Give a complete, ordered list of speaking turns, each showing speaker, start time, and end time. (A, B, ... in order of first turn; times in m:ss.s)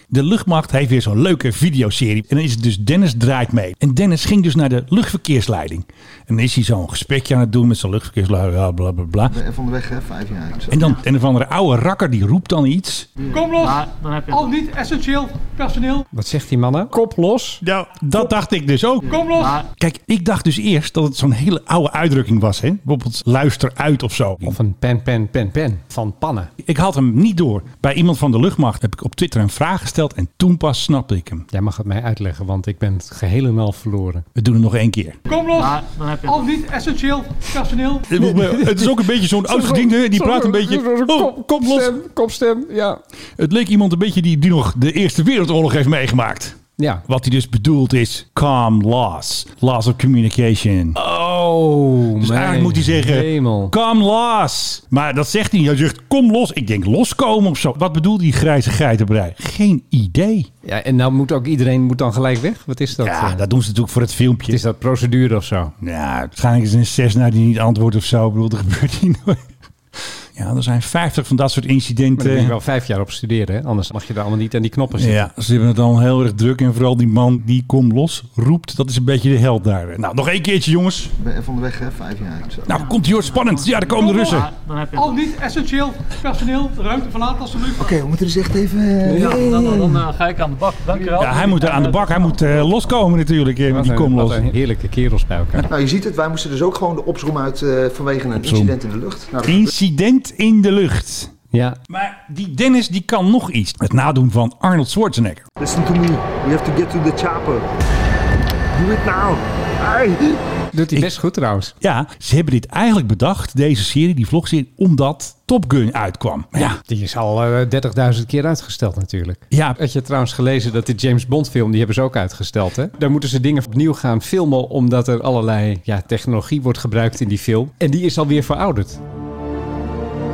0:00.1-0:09.4 A
0:09.3-0:10.9 B
0:10.7-0:13.1 A
0:13.2-0:16.1 C
0:13.6-0:14.5 D
0:16.1-0:17.6 E
0:17.6-0:24.6 A
0:19.0-0:19.6 C
0:19.3-0:19.6 D
0:24.4-0:26.5 E
0:26.6-0:31.4 A
0:31.5-0:34.2 E
0:34.4-0:35.2 A
0:35.2-0:38.1 C
0:35.5-0:36.5 D
0:38.1-0:41.9 A
0:38.1-0:43.0 E
0:43.4-0:51.0 A
0:46.8-0:47.0 E
0:51.0-0:53.7 E
0:52.2-1:00.5 A
1:00.6-1:03.4 E
1:03.0-1:04.6 A
1:04.5-1:05.7 E
1:05.8-1:12.5 A
1:12.2-1:15.3 E
1:14.9-1:21.1 A
1:21.2-1:22.8 B
1:22.6-1:24.5 A
1:23.4-1:25.2 D
1:23.9-1:27.9 C
1:27.7-1:30.1 B
1:29.1-1:32.5 D
1:31.2-1:34.5 A
1:33.7-1:35.6 E
1:35.6-1:39.7 B
1:38.4-1:38.8 A
1:39.4-1:41.3 A
1:41.5-1:41.8 E
1:41.9-1:45.4 A
1:45.6-1:47.6 B
1:48.7-1:50.4 B
1:50.7-1:51.7 E
1:51.8-1:56.8 A
1:56.6-2:09.0 E
1:59.5-1:59.8 A